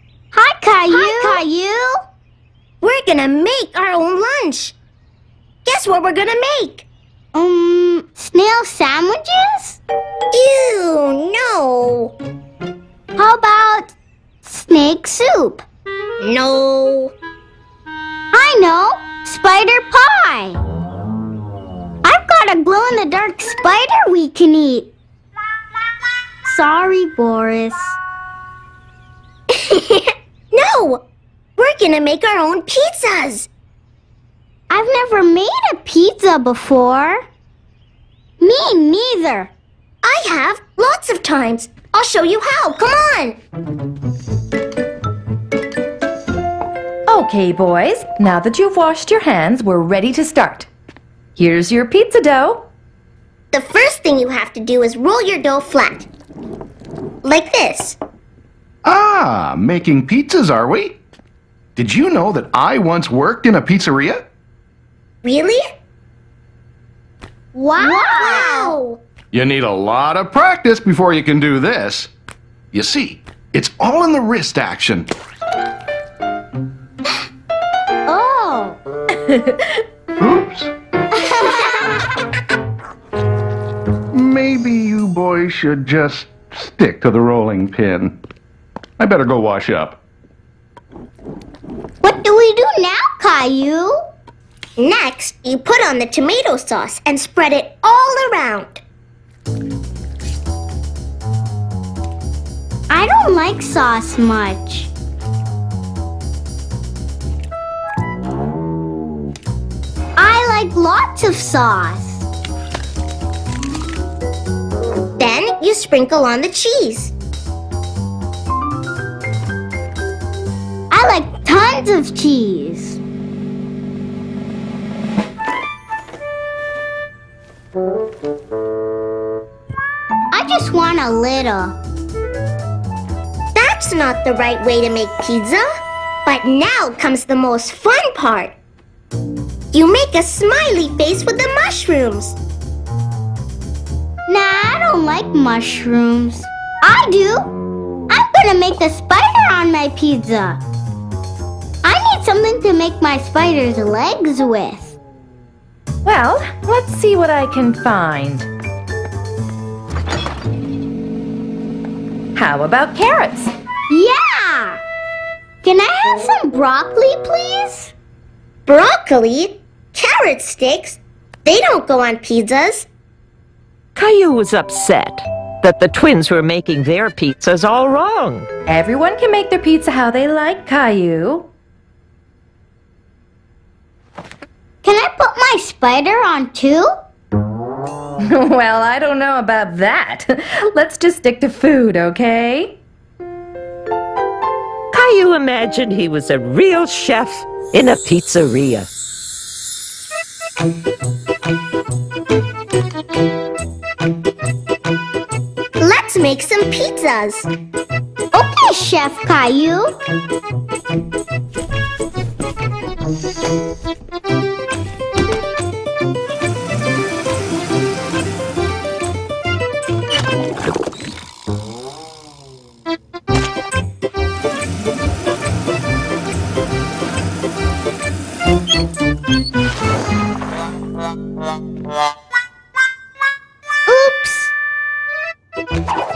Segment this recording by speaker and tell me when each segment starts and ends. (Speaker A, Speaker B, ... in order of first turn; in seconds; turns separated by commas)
Speaker A: 0.3-2.0, Speaker B: 0.9-1.4, Speaker B: 2.8-4.7, Speaker B: 5.6-6.8, Speaker A: 7.3-9.8, Speaker B: 10.3-12.1, Speaker A: 13.2-13.9, Speaker A: 14.4-15.6, Speaker B: 16.2-17.1, Speaker A: 18.3-20.6, Speaker A: 22.0-24.9, Speaker A: 26.5-27.9, Speaker B: 29.5-31.0, Speaker B: 31.6-33.5, Speaker A: 34.7-37.2, Speaker A: 38.4-39.5, Speaker B: 40.0-43.4, Speaker C: 47.1-50.7, Speaker C: 51.4-52.7, Speaker B: 53.5-56.1, Speaker B: 57.2-58.0, Speaker D: 58.8-61.0, Speaker D: 61.8-64.2, Speaker B: 65.2-65.7, Speaker A: 67.5-68.8, Speaker B: 67.8-69.0, Speaker D: 69.3-72.1, Speaker D: 72.7-75.1, Speaker A: 78.1-78.8, Speaker C: 79.2-79.8, Speaker D: 80.2-80.7, Speaker D: 84.1-88.2, Speaker D: 89.0-90.0, Speaker A: 92.0-94.0, Speaker B: 94.8-98.8, Speaker A: 102.9-104.9, Speaker A: 110.2-112.2, Speaker B: 115.2-117.1, Speaker A: 120.9-123.0, Speaker A: 130.3-131.8, Speaker B: 133.5-135.7, Speaker B: 136.2-138.5, Speaker B: 139.7-142.4, Speaker A: 144.3-147.5, Speaker A: 148.1-150.6, Speaker A: 151.8-154.9, Speaker C: 156.0-158.5, Speaker C: 162.3-163.5, Speaker A: 163.9-164.8, Speaker A: 165.6-167.9, Speaker B: 168.7-172.9, Speaker E: 173.9-178.5, Speaker C: 178.7-181.5, Speaker A: 184.8-186.9, Speaker C: 188.2-192.8, Speaker E: 194.9-198.9, Speaker B: 205.8-207.5, Speaker A: 208.3-209.9, Speaker B: 233.9-234.5